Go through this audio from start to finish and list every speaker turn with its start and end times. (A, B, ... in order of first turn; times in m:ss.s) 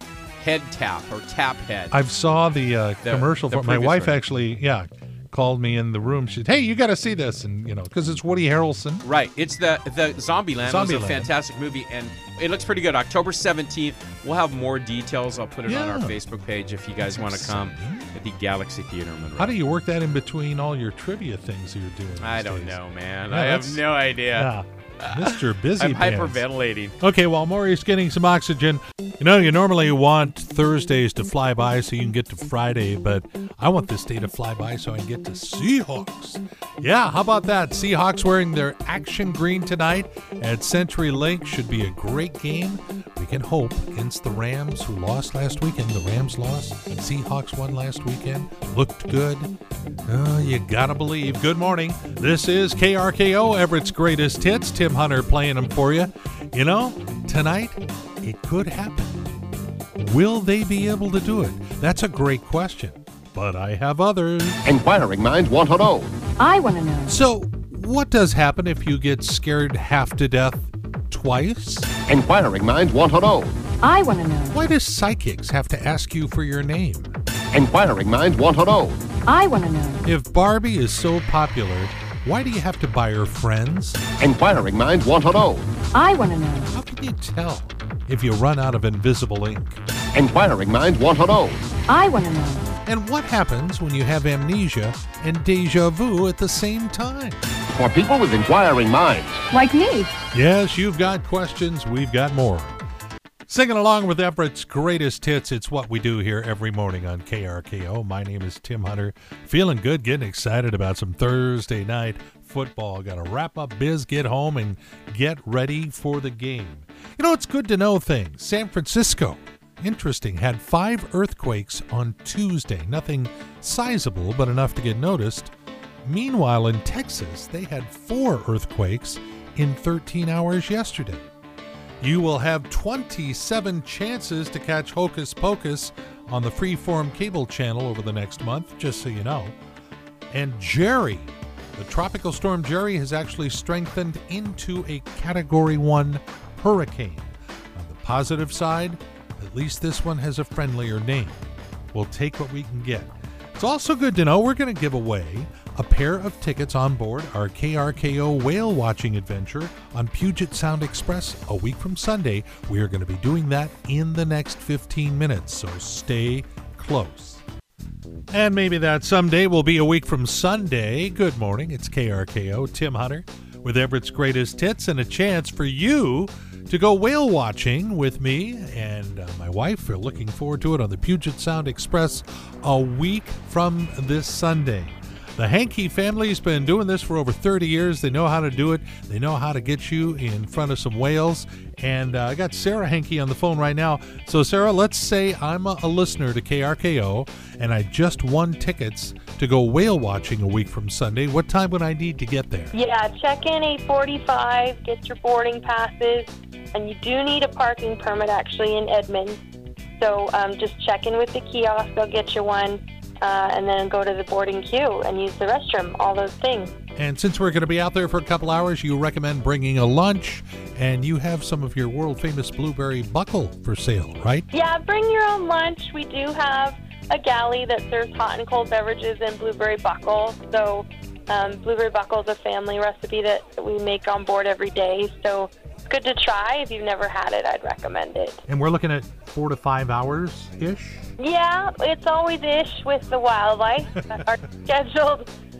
0:00.4-0:01.9 A
0:01.9-0:09.0 B
0:03.0-0:04.2 A
0:09.0-0:19.6 A
0:10.6-0:11.3 B
0:15.6-0:16.2 B
0:17.0-0:18.1 B
0:19.4-0:26.4 B
0:22.2-0:27.0 A
0:27.0-0:49.5 B
0:50.1-0:59.3 B
1:00.0-1:04.6 B
1:04.6-1:06.1 C
1:06.4-1:07.1 D
1:07.1-1:11.9 B
1:12.1-1:13.5 C
1:13.8-1:14.6 D
1:14.5-1:17.1 B
1:17.5-1:19.0 C
1:19.3-1:20.0 D
1:20.0-1:24.0 B
1:24.2-1:25.7 C
1:25.9-1:26.7 D
1:26.7-1:29.8 B
1:30.1-1:31.6 C
1:31.9-1:32.6 D
1:32.8-1:37.4 B
1:37.7-1:39.4 C
1:40.3-1:42.8 B
1:43.5-2:05.5 B
2:06.0-2:11.2 B
2:12.0-2:19.6 B
2:20.3-2:31.4 B
2:31.9-2:47.4 B
2:48.3-3:22.7 B
3:22.7-3:29.4 E
3:30.0-3:36.7 E
3:37.0-3:44.5 B
3:44.5-3:58.4 E
3:58.5-4:01.0 B
4:01.2-4:05.3 E